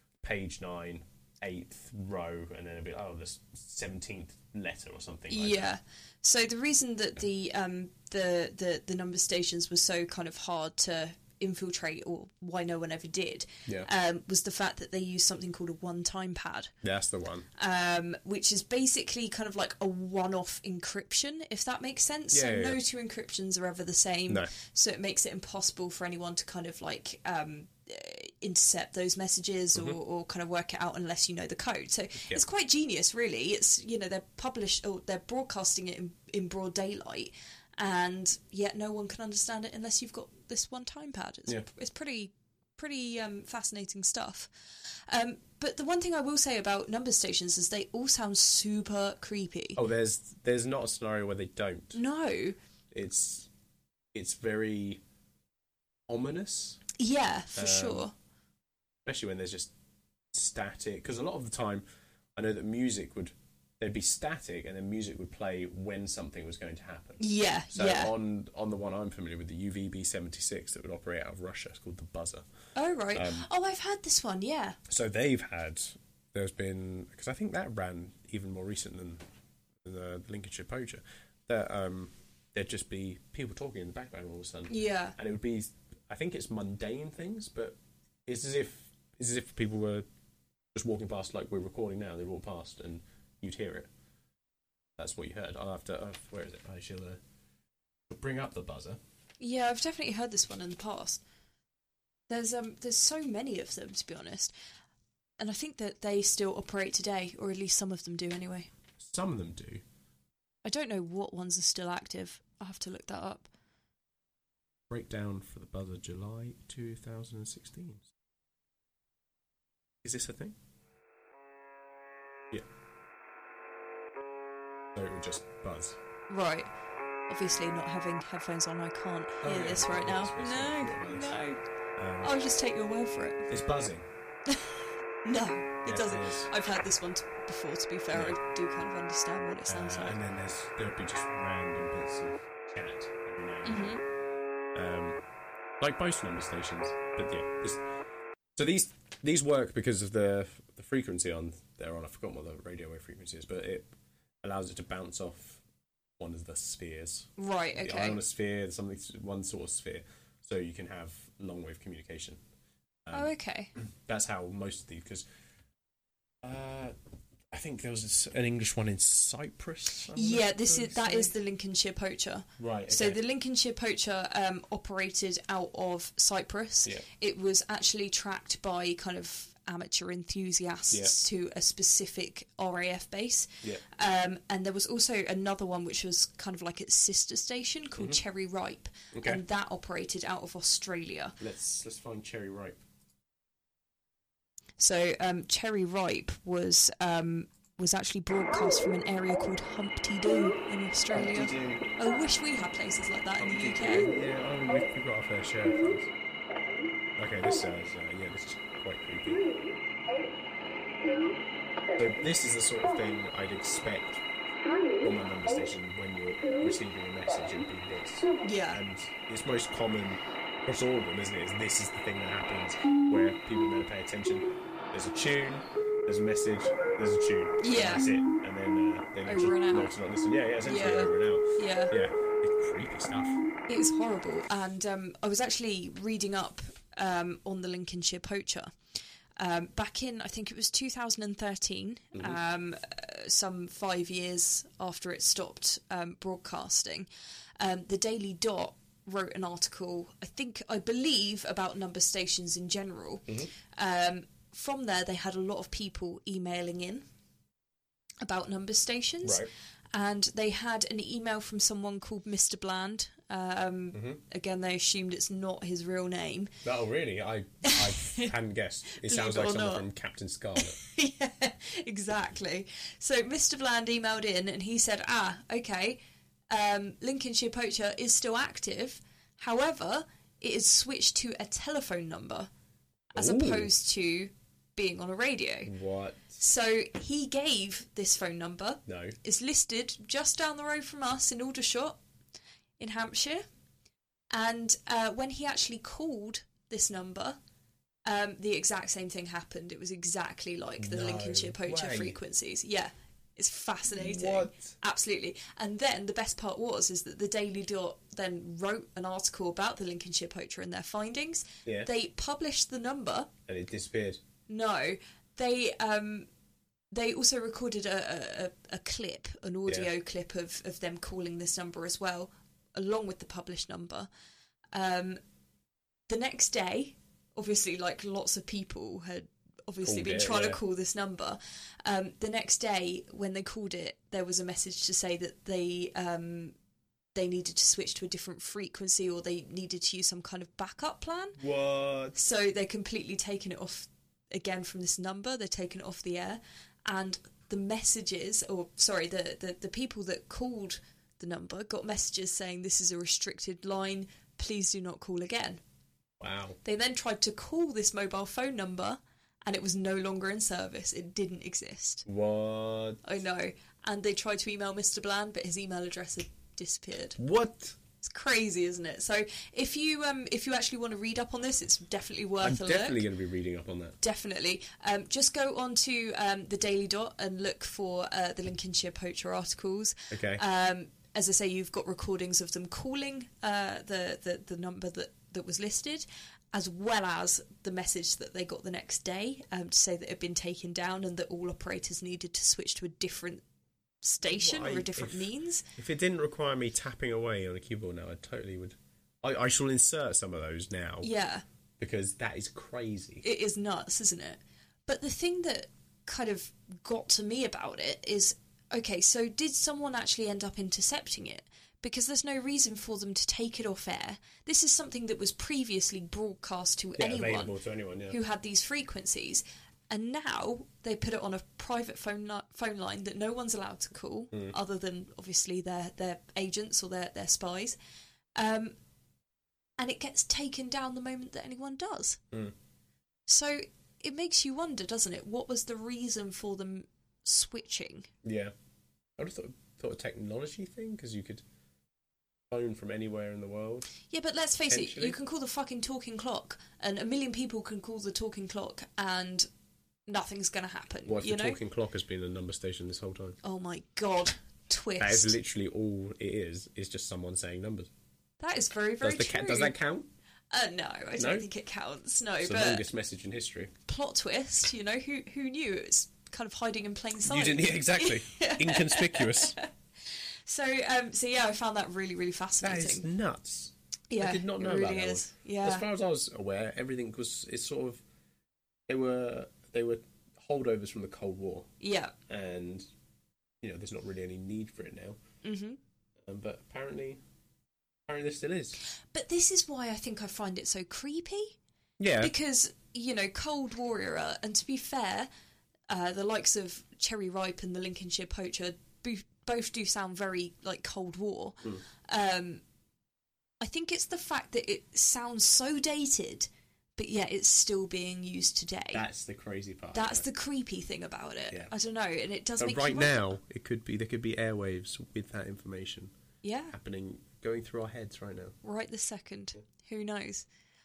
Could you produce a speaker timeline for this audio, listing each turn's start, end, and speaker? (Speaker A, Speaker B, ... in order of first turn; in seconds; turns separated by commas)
Speaker A: 0.2-5.7, Speaker B: 5.3-16.7, Speaker A: 16.8-17.5, Speaker B: 17.6-49.8, Speaker A: 22.3-22.8, Speaker A: 49.8-52.0, Speaker B: 52.0-52.6, Speaker A: 52.9-53.5, Speaker A: 54.1-55.0, Speaker A: 56.1-56.8, Speaker B: 57.0-58.1, Speaker A: 57.5-58.1, Speaker A: 59.0-59.7, Speaker A: 60.3-61.9, Speaker A: 62.4-72.5, Speaker B: 67.2-68.1, Speaker B: 72.8-74.8, Speaker A: 73.1-73.5, Speaker A: 74.9-79.2, Speaker A: 79.8-90.0, Speaker B: 84.7-85.2, Speaker A: 90.7-93.9, Speaker A: 95.0-97.2, Speaker A: 98.1-99.0, Speaker B: 99.4-101.2, Speaker B: 102.3-104.5, Speaker B: 105.4-108.7, Speaker A: 109.0-109.8, Speaker B: 110.6-113.5, Speaker A: 114.9-118.1, Speaker A: 120.0-120.6, Speaker A: 124.9-126.0, Speaker B: 126.3-126.7, Speaker B: 127.3-131.6, Speaker A: 129.4-131.4, Speaker A: 132.0-132.3, Speaker B: 132.2-133.5, Speaker A: 133.5-134.1, Speaker B: 135.2-140.2, Speaker A: 135.8-136.5, Speaker A: 138.1-138.4, Speaker A: 139.7-144.0, Speaker B: 143.6-144.0, Speaker A: 144.7-145.2, Speaker A: 145.8-147.8, Speaker A: 148.6-153.9, Speaker A: 154.4-155.6, Speaker A: 156.2-162.4, Speaker B: 157.4-158.2, Speaker A: 163.1-165.2, Speaker B: 163.1-163.7, Speaker A: 166.4-166.9, Speaker A: 167.5-171.3, Speaker B: 170.1-191.4, Speaker A: 172.6-173.2, Speaker A: 189.1-189.4, Speaker A: 191.4-192.8, Speaker B: 194.8-204.1, Speaker A: 201.1-201.9, Speaker A: 203.4-206.1, Speaker A: 207.2-209.5, Speaker A: 212.0-214.2, Speaker A: 215.0-233.4, Speaker B: 218.4-218.8, Speaker B: 227.6-228.1, Speaker B: 229.2-229.9, Speaker B: 230.6-231.9, Speaker B: 233.7-238.7, Speaker B: 239.4-247.1, Speaker B: 247.6-257.1, Speaker B: 258.2-259.4, Speaker A: 259.2-259.5, Speaker B: 259.9-266.5, Speaker A: 263.9-264.2, Speaker A: 266.6-270.8, Speaker B: 267.6-268.3, Speaker B: 268.9-269.9, Speaker B: 270.6-276.0, Speaker B: 276.5-282.5, Speaker B: 283.1-285.7, Speaker A: 283.1-283.7, Speaker A: 285.7-286.4, Speaker B: 286.4-292.0, Speaker A: 288.9-289.2, Speaker B: 292.8-293.4, Speaker B: 294.3-297.4, Speaker B: 298.1-313.3, Speaker A: 300.8-302.2, Speaker A: 303.9-304.7, Speaker A: 313.5-314.2, Speaker B: 314.5-316.3, Speaker B: 316.9-324.1, Speaker B: 324.7-325.2, Speaker B: 326.1-336.6, Speaker A: 329.8-330.6, Speaker B: 337.1-341.4, Speaker A: 341.4-342.2, Speaker B: 342.1-355.6, Speaker A: 356.2-356.6, Speaker B: 356.6-362.1, Speaker A: 362.1-363.0, Speaker B: 363.0-367.2, Speaker A: 367.2-367.8, Speaker B: 368.0-373.0, Speaker A: 372.4-374.0, Speaker B: 374.0-393.4, Speaker A: 380.1-380.4, Speaker B: 394.0-395.7, Speaker A: 394.2-401.1, Speaker B: 401.0-401.4, Speaker A: 401.8-403.2, Speaker B: 403.2-417.5, Speaker A: 417.0-418.2, Speaker B: 418.1-427.8, Speaker B: 428.4-428.8, Speaker B: 429.8-432.2, Speaker B: 433.3-438.1, Speaker A: 438.2-438.5, Speaker A: 439.2-441.4, Speaker A: 442.5-443.9, Speaker B: 444.1-449.5, Speaker A: 444.7-445.2, Speaker B: 450.1-451.6, Speaker A: 451.1-453.4, Speaker B: 453.4-455.4, Speaker A: 455.0-457.9, Speaker B: 458.4-459.8, Speaker A: 459.0-460.1, Speaker B: 460.5-462.8, Speaker A: 461.2-461.5, Speaker A: 462.4-463.7, Speaker B: 463.9-469.7, Speaker A: 467.2-469.6, Speaker B: 470.2-473.1, Speaker A: 472.6-478.0, Speaker B: 474.1-475.9, Speaker A: 478.9-481.7, Speaker B: 481.8-482.1, Speaker A: 482.3-482.9, Speaker A: 483.6-485.2, Speaker B: 485.4-485.8, Speaker A: 486.2-487.2, Speaker A: 488.1-488.8, Speaker B: 489.1-491.6, Speaker A: 492.0-492.3, Speaker B: 492.2-495.3, Speaker B: 495.9-502.6, Speaker B: 503.6-509.0, Speaker A: 508.9-510.3, Speaker B: 509.9-513.4, Speaker A: 512.6-516.1, Speaker B: 516.4-516.8, Speaker A: 516.7-518.6, Speaker B: 518.6-520.5